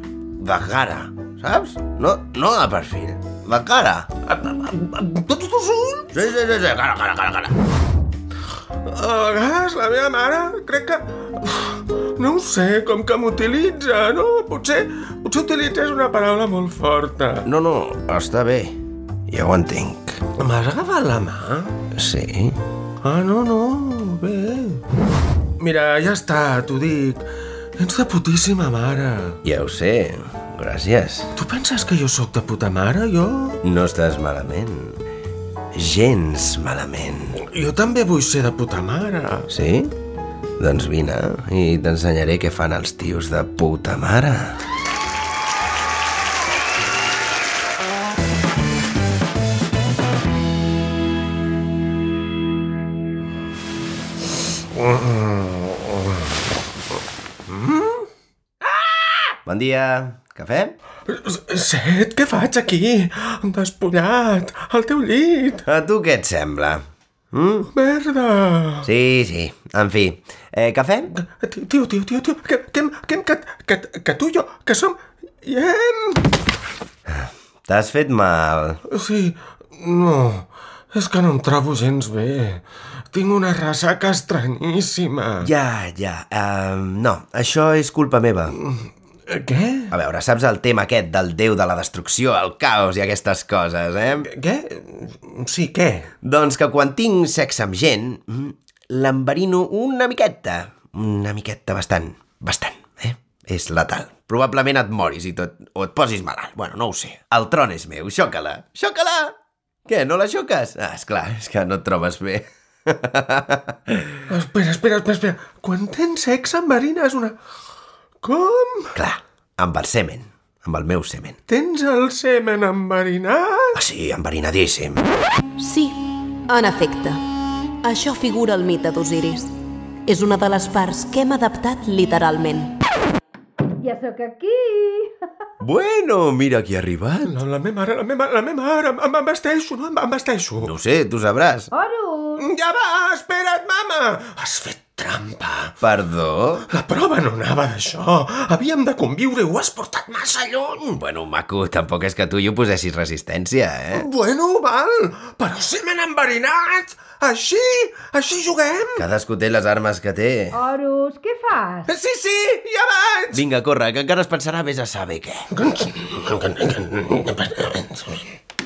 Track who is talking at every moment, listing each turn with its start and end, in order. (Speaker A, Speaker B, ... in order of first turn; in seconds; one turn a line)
Speaker A: 0.4-4.1
Speaker B: 4.3-6.1
Speaker A: 6.1-7.5
Speaker B: 8.8-17.5
Speaker A: 17.4-18.8
Speaker A: 19.3-20.2
Speaker B: 20.4-21.7
Speaker A: 21.9-22.6
Speaker B: 23.0-24.8
Speaker B: 25.6-27.2
Speaker B: 27.8-29.4
Speaker A: 29.4-31.3
Speaker B: 31.4-33.6
Speaker A: 33.6-35.0
Speaker A: 35.7-37.4
Speaker B: 37.4-39.5
Speaker A: 39.5-39.9
Speaker A: 40.6-44.6
Speaker B: 54.7-56.0
Speaker B: 57.5-58.0
Speaker A: 59.5-60.8
Speaker B: 61.1-65.6
Speaker A: 65.7-67.7
Speaker B: 67.7-68.8
Speaker A: 68.8-71.1
Speaker B: 71.2-76.2
Speaker A: 77.1-78.8
Speaker B: 78.9-85.5
Speaker A: 85.4-88.6
Speaker B: 88.5-89.9
Speaker A: 89.9-94.3
Speaker B: 94.3-96.1
Speaker A: 96.2-109.3
Speaker A: 109.9-113.9
Speaker B: 114.3-117.3
Speaker B: 118.2-118.9
Speaker A: 119.0-121.4
Speaker B: 121.5-123.8
Speaker A: 123.8-125.0
Speaker C: 125.6-127.2
Speaker C: 127.8-129.5
Speaker C: 130.1-132.8
Speaker D: 133.8-135.1
Speaker A: 135.6-137.4
Speaker B: 137.2-140.7
Speaker A: 140.6-141.7
Speaker D: 141.7-142.4
Speaker B: 142.4-145.7
Speaker A: 145.8-146.7
Speaker B: 146.7-151.0
Speaker A: 151.0-154.1
Speaker B: 153.9-159.0
Speaker A: 159.0-160.6
Speaker D: 160.5-161.9
Speaker B: 161.9-163.4
Speaker A: 163.3-165.4
Speaker B: 165.5-168.2